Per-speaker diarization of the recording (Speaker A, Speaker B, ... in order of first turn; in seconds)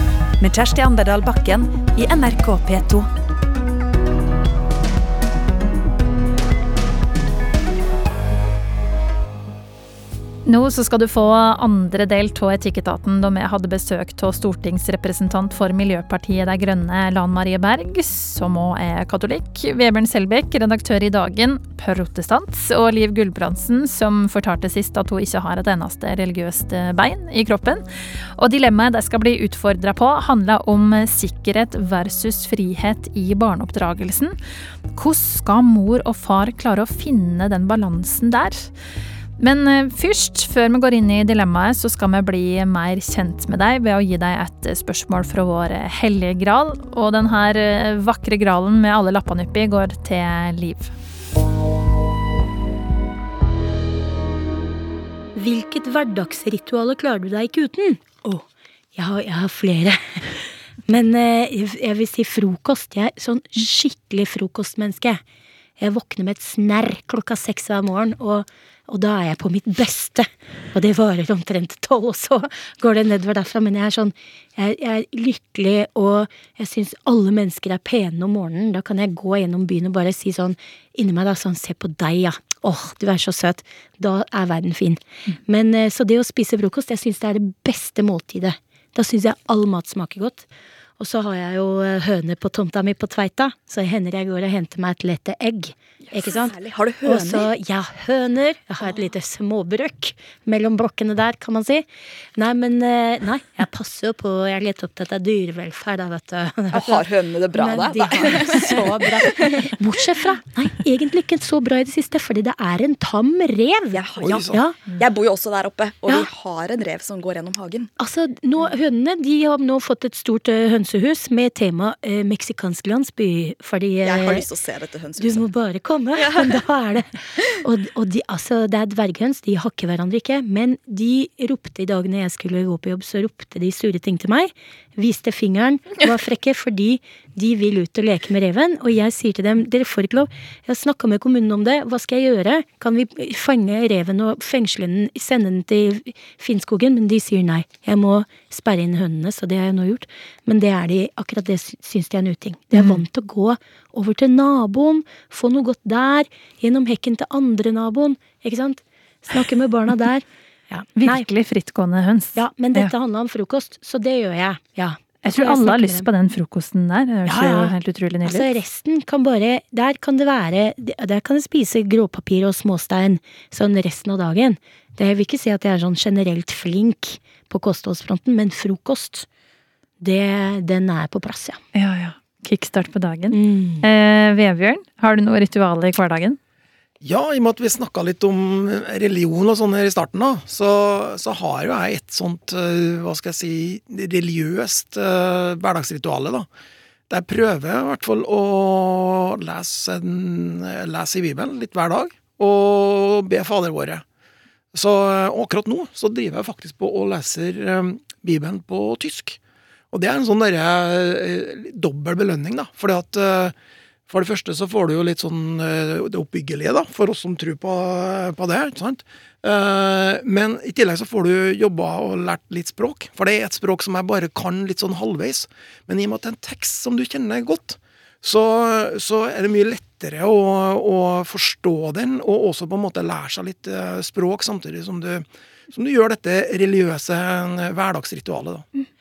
Speaker A: 0.4-3.1
Speaker B: 10.5-27.8, 28.4-34.4, 34.9-38.7, 39.4-50.9, 161.0-162.9, 165.2-168.5, 181.7-186.4
Speaker C: 55.4-65.2, 65.8-90.5, 91.0-101.8, 102.4-114.8, 118.0-124.5, 125.2-161.2, 162.4-166.1, 167.3-167.7, 168.2-179.3, 180.0-181.6, 183.3-183.9
Speaker D: 96.1-97.5, 106.7-109.8, 113.9-117.9, 124.0-125.5, 126.2-126.5
Speaker E: 114.2-114.6, 187.0-196.5, 197.1-204.0, 204.7-209.4, 209.9-213.6, 214.1-238.7